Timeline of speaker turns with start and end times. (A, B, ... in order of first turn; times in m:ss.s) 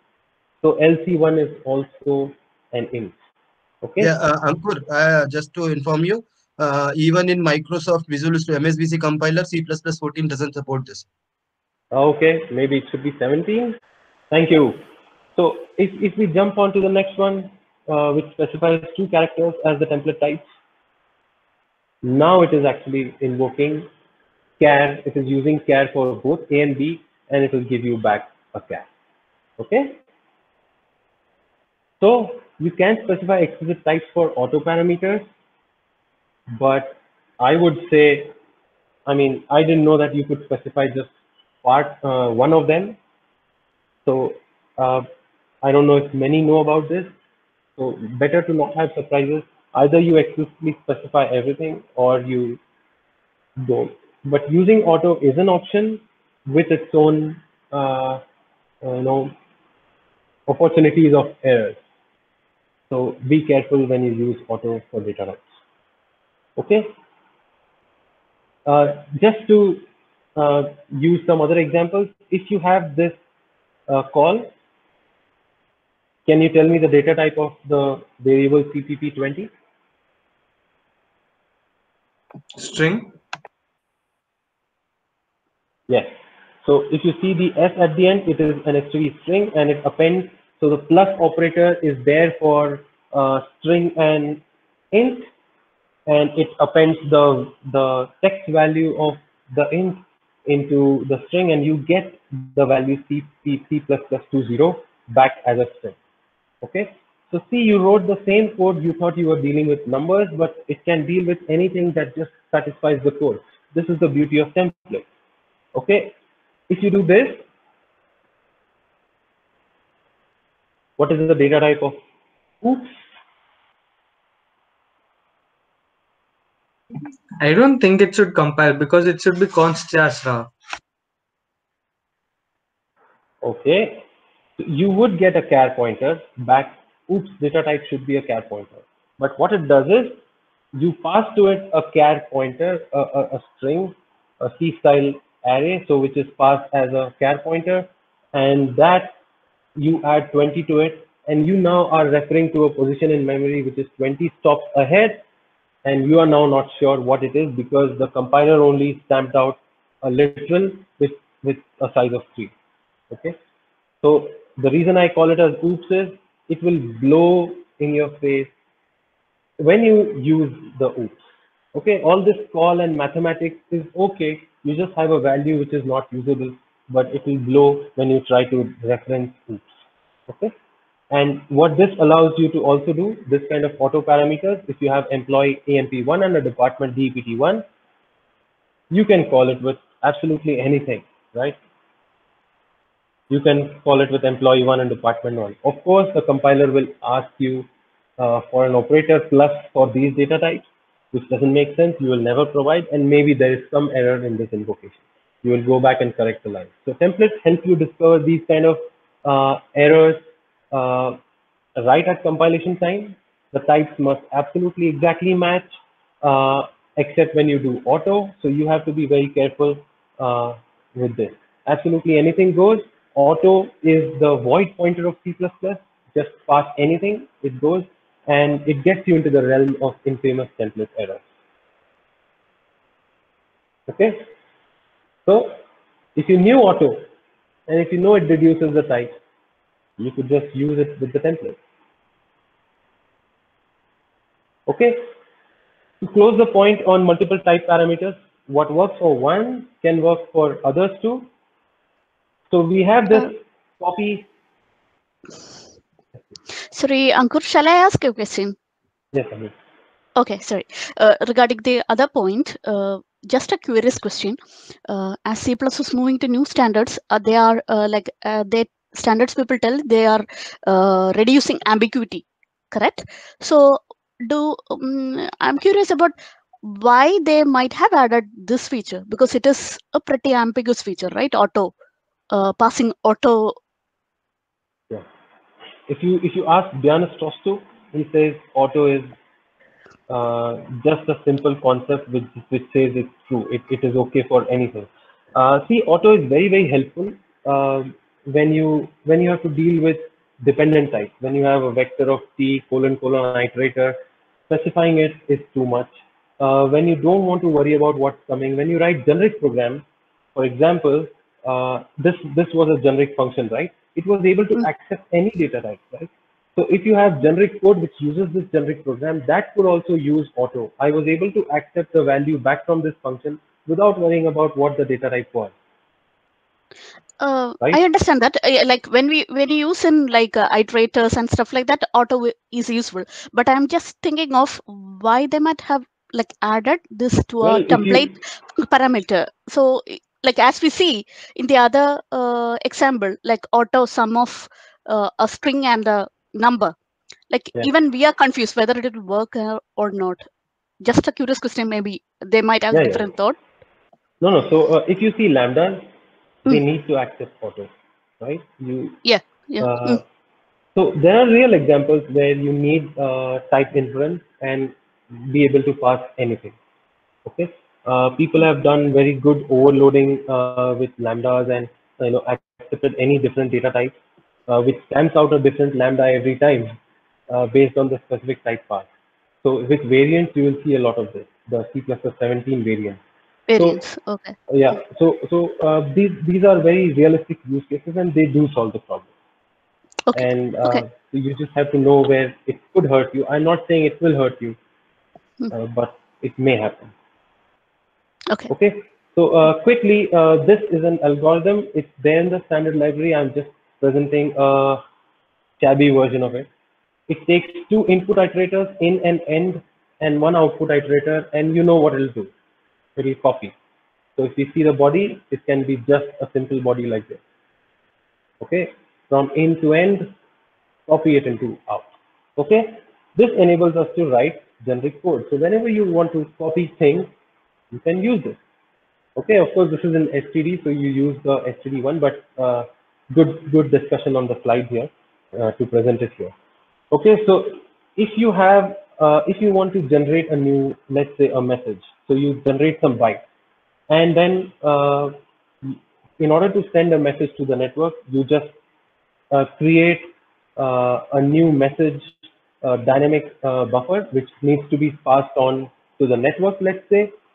0:00.6-0:03.2 A
0:03.8-0:04.1 A
0:04.0-0:11.1 B
0:11.9-0:13.8 A
0:14.3-0:14.8 A
0:15.4-0:20.5 A
0:22.0-0:23.9 A
0:24.6-0:28.9 A
0:29.6-0:30.0 A
0:32.0-0:35.2 A
0:36.5-0:38.3 A
0:39.0-0:41.1 A
0:41.6-0:43.0 A
0:44.0-0:45.1 A
0:45.6-0:47.1 A
0:47.8-0:52.6 A
0:53.6-0:58.2 A
0:58.8-0:59.3 A
1:00.5-1:01.8 A
1:02.9-1:05.5 A
1:06.6-1:06.9 A
1:08.6-1:09.8 A
1:10.4-1:13.2 A
1:13.9-1:14.5 A
1:16.2-1:19.5 A
1:22.5-1:23.1 C
1:25.9-1:26.1 A
1:26.6-1:35.3 A
1:36.1-1:46.0 A
1:46.6-1:55.0 A
1:55.7-1:56.1 A
1:56.7-1:57.4 A
2:01.0-2:02.0 A
2:02.6-2:03.0 A
2:07.4-2:10.5 C
2:13.4-2:14.0 A
2:14.6-2:20.2 A
2:20.7-2:29.2 A
2:29.8-2:35.2 A
2:35.8-2:42.5 A
2:43.1-2:43.4 A
2:44.0-2:48.5 A
2:49.6-2:51.2 A
2:51.7-2:59.7 A
3:00.3-3:00.5 A
3:01.1-3:07.6 A
3:08.9-3:11.6 A
3:13.3-3:31.2 A
3:31.8-3:51.2 A
3:53.9-3:54.3 A
3:55.2-3:55.6 A
3:56.1-3:57.1 A
3:57.7-3:59.1 A
4:00.0-4:01.6 A
4:04.7-4:05.0 A
4:06.0-4:11.3 A
4:12.5-4:14.3 A
4:16.7-4:18.5 D
4:19.1-4:19.5 A
4:20.2-4:41.7 D
4:42.3-4:43.6 D
4:45.9-4:49.1 A
4:50.1-5:04.0 A
5:04.5-5:25.5 A
5:27.2-5:46.7 D
5:37.4-5:38.1 A
5:47.3-5:50.2 D
5:50.8-5:53.4 D
5:52.7-5:53.1 A
5:54.2-5:55.8 A
5:56.4-5:59.0 A
5:59.0-6:00.0 D
5:59.6-6:00.0 A
6:00.7-6:06.6 A
6:07.2-6:14.0 A
6:14.5-6:16.7 A
6:17.3-6:18.9 A
6:19.4-6:23.0 A
6:23.5-6:24.4 D
6:23.5-6:23.8 A
6:24.5-6:29.1 A
6:30.0-6:30.8 D
6:30.1-6:34.6 A
6:35.5-6:36.9 A
6:38.5-6:44.8 A
6:45.6-6:46.5 A
6:47.1-6:52.3 A
6:53.0-6:53.5 A
6:54.2-6:57.2 A
6:58.4-7:00.1 A
7:00.9-7:07.1 A
7:07.7-7:08.4 A
7:09.2-7:16.3 A
7:16.9-7:23.2 A
7:23.9-7:28.5 A
7:29.3-7:37.1 A